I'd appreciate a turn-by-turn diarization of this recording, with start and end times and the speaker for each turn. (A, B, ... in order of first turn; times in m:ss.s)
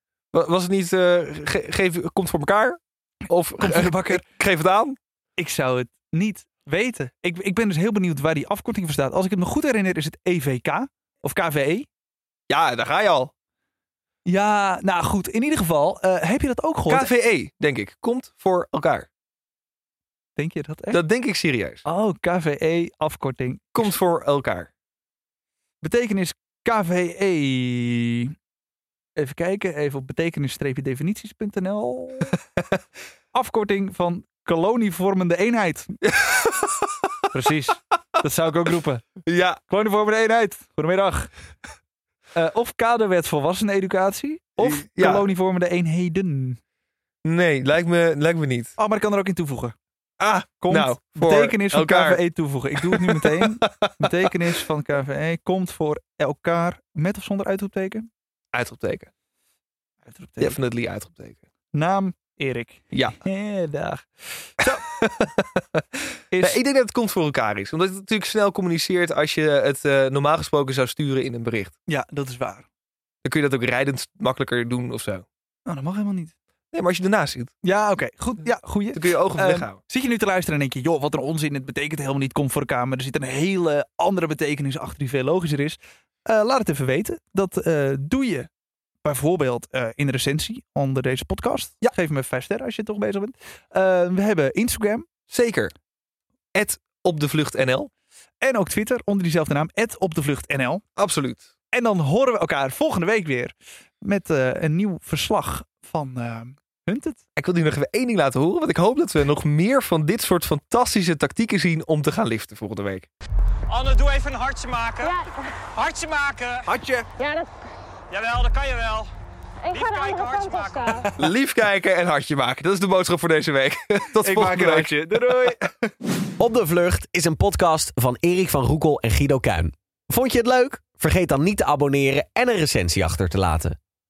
0:00.3-0:05.0 A
0:03.6-0:04.2 B
0:05.4-0:11.9 B
0:12.5-0:13.3 A
0:14.2-0:17.1 B
0:16.9-0:19.1 A
0:20.4-0:21.0 B
0:20.9-0:21.8 A
0:21.8-0:23.9 B
0:23.7-0:24.7 A
0:25.8-0:28.3 B
0:29.2-0:32.4 B
0:33.3-0:36.0 B
0:36.0-0:37.1 A
0:37.3-0:39.1 B
0:39.2-0:39.6 A
0:39.7-0:41.3 B
0:42.3-0:46.6 B
0:44.6-0:45.3 A
0:47.2-0:48.7 A
0:48.8-0:49.8 B
0:50.2-0:52.2 A
0:50.6-0:58.1 B
0:52.8-0:54.3 A
0:58.5-0:59.1 A
1:00.0-1:00.6 B
1:00.4-1:01.4 A
1:01.7-1:04.8 B
1:02.9-1:03.2 A
1:04.7-1:11.7 A
1:06.3-1:06.6 B
1:11.9-1:12.6 B
1:13.2-1:15.2 A
1:15.6-1:16.3 B
1:16.7-1:17.5 A
1:17.6-1:28.5 B
1:18.9-1:19.8 A
1:29.0-1:35.1 B
1:35.3-1:35.7 A
1:36.5-1:37.9 A
1:38.4-1:40.8 B
1:41.0-1:41.4 A
1:41.7-1:47.2 B
1:47.4-1:53.1 A
1:53.7-1:55.2 C
1:55.0-1:55.4 D
1:55.7-1:56.7 C
1:56.6-1:57.1 B
1:57.2-1:57.5 D
1:58.1-1:59.1 C
1:59.6-2:01.1 D
1:59.7-2:01.1 C
2:01.2-2:05.6 A
2:04.2-2:05.9 B
2:06.4-2:13.8 E